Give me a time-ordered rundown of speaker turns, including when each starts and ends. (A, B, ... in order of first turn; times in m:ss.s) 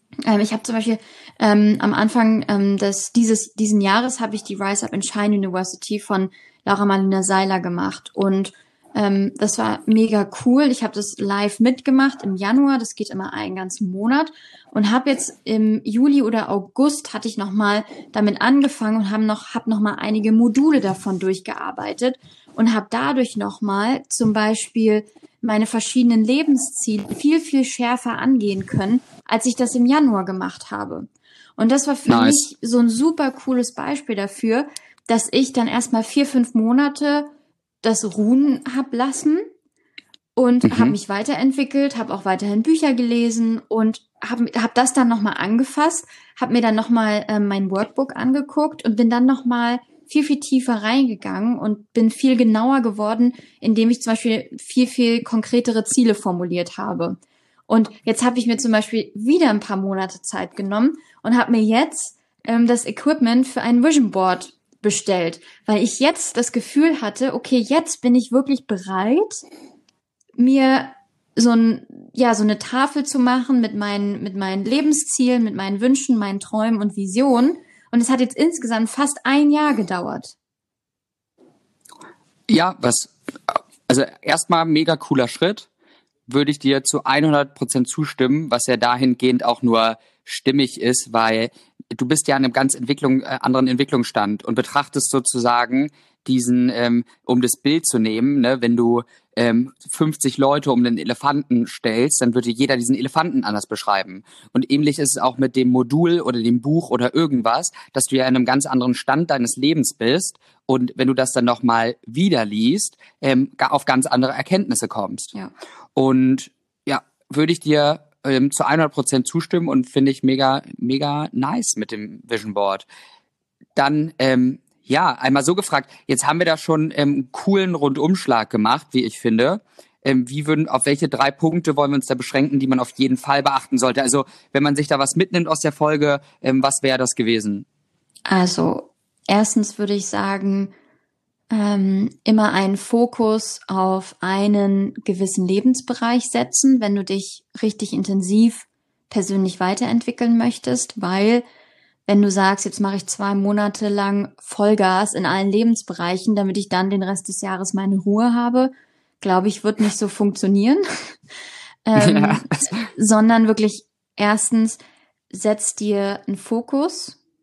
0:00.3-0:37.3 A
0:32.1-0:32.4 B
0:37.8-0:39.4 A
0:40.4-1:09.4 A
0:40.6-0:41.0 B
1:10.4-1:20.4 A
1:22.5-1:25.7 B
1:26.3-1:55.3 B
1:56.0-2:02.9 B
2:03.8-2:17.7 B
2:18.3-2:20.7 A
2:21.5-2:31.4 A
2:32.1-2:41.2 A
2:41.9-2:47.2 A
2:42.0-2:42.9 B